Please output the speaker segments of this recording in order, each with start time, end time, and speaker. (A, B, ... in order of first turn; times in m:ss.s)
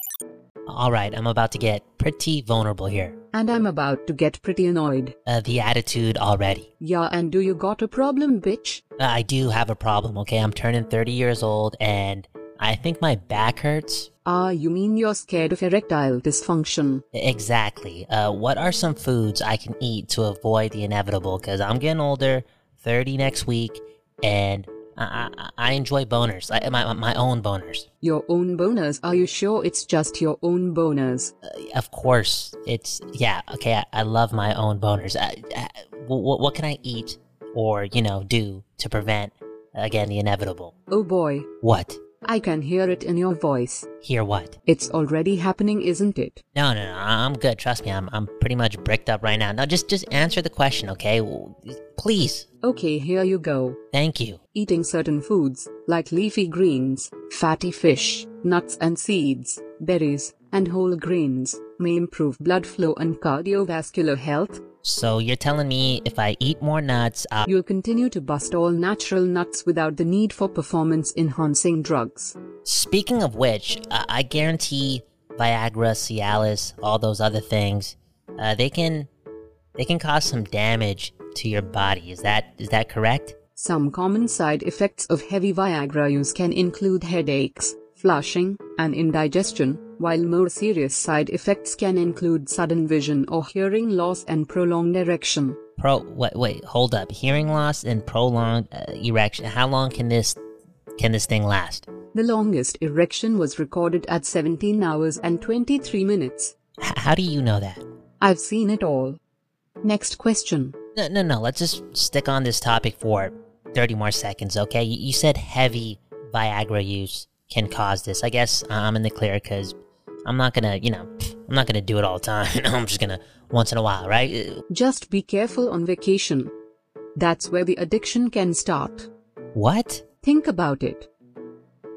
0:00.7-0:03.1 A
0:03.3-0:05.2 B
0:05.3-0:06.7 A
0:06.8-0:08.8 B
0:09.0-0:14.1 A
0:14.2-0:17.0 B
0:17.1-0:27.9 A
0:28.0-0:31.3 B
0:31.4-0:40.7 A
0:40.9-0:41.5 B
0:41.6-0:42.0 A
0:42.2-0:43.9 B
0:44.0-0:44.6 A
0:44.7-0:46.4 B
0:46.6-0:52.5 A
0:52.6-0:53.8 B
0:53.9-0:54.4 A
0:54.5-1:04.6 B
1:04.8-1:07.5 A
1:07.4-1:12.4 B
1:12.6-1:19.1 A
1:19.8-1:23.4 A
1:23.6-1:35.6 B
1:35.8-1:40.4 A
1:41.0-1:41.9 A
1:42.1-1:46.5 B
1:46.8-1:47.8 A
1:48.2-1:49.2 B
1:49.8-1:50.8 B
1:51.0-1:59.8 A
2:00.3-2:04.6 A
2:04.7-2:06.5 B
2:07.2-2:09.1 B
2:09.6-2:10.0 A
2:10.2-2:11.1 B